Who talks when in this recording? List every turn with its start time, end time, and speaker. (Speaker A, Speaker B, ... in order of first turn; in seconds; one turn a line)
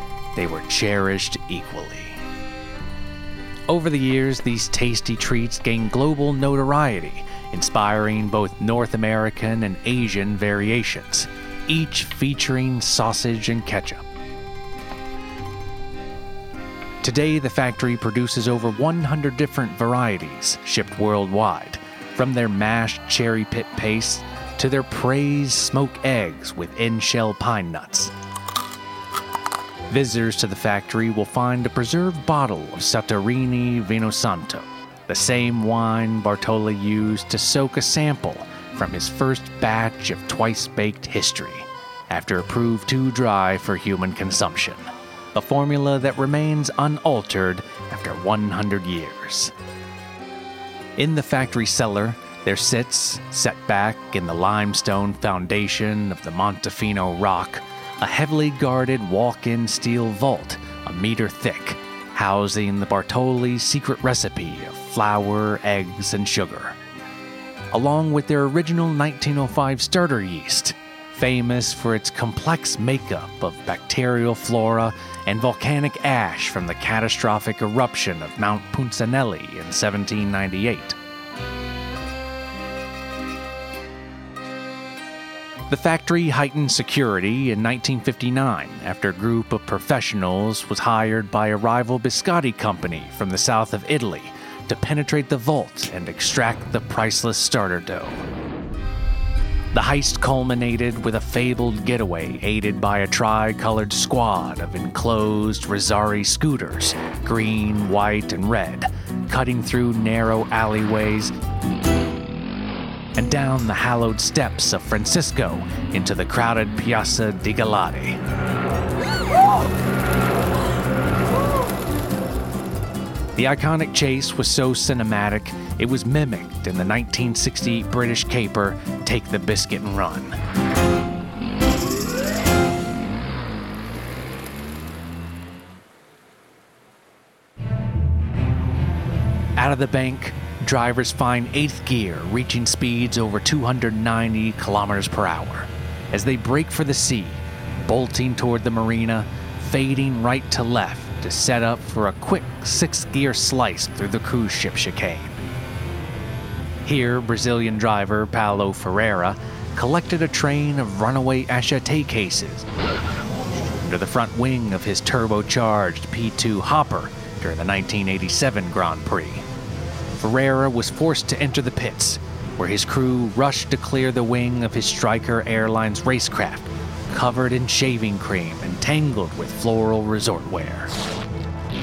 Speaker A: 0.3-2.2
Speaker A: 3.7-14.1
Speaker A: 17.0-28.1
Speaker A: 29.9-49.5
Speaker A: 51.0-66.8
Speaker A: 67.7-81.0
Speaker A: 85.7-98.2
Speaker A: 99.7-111.3
Speaker A: 113.2-118.2
Speaker A: 123.4-130.4
Speaker A: 139.6-155.4
Speaker A: 156.8-162.7
Speaker A: 163.8-169.4
Speaker A: 170.2-180.9